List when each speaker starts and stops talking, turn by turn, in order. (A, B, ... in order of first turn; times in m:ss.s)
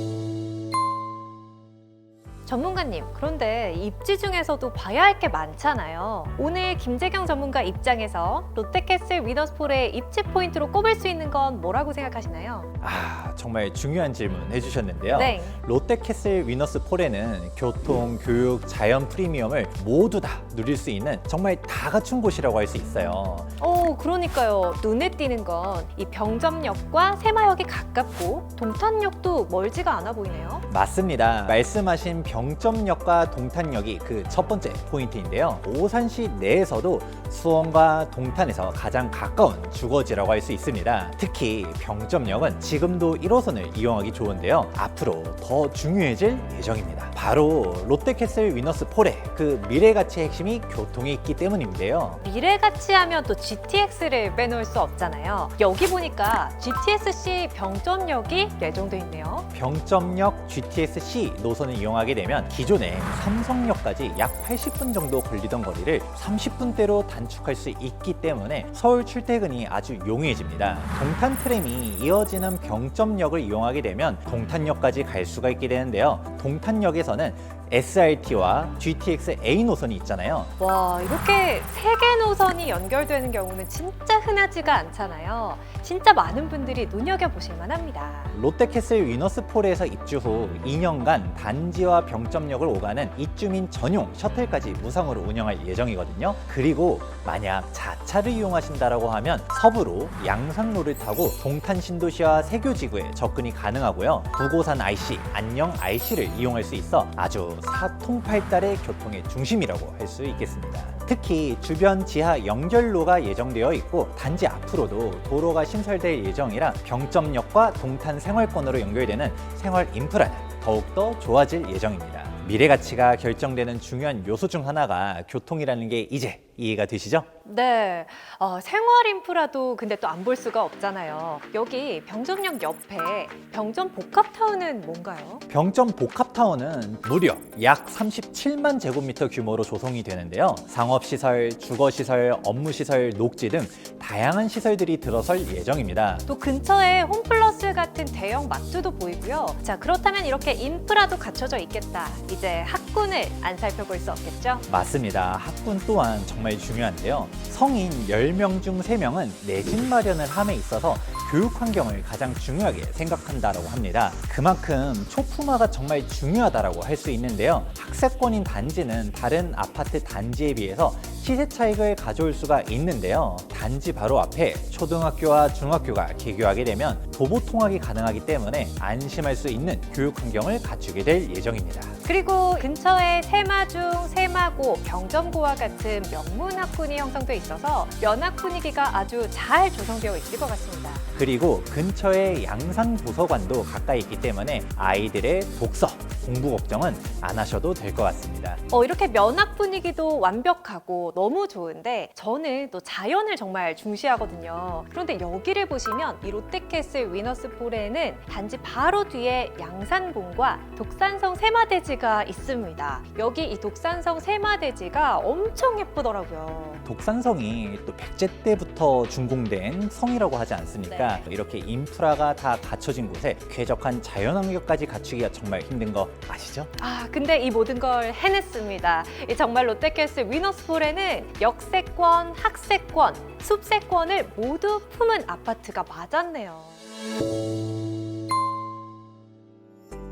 0:02.4-0:12.7 A
0:12.8-0:23.5 B
0:15.1-0:15.6 A
0:23.6-0:30.6 A
0:30.7-0:52.2 B
0:52.2-0:59.5 A
0:59.5-1:20.5 B
1:20.6-1:28.3 A
1:28.3-2:07.3 B
2:07.4-2:15.4 A
2:15.5-2:26.2 B
2:26.3-2:34.6 A
2:34.7-3:01.9 B
3:02.0-3:11.0 A
3:11.2-3:18.6 B
3:18.7-3:36.8 A
3:36.8-3:46.7 B
3:40.9-3:41.2 A
3:46.8-3:56.8 A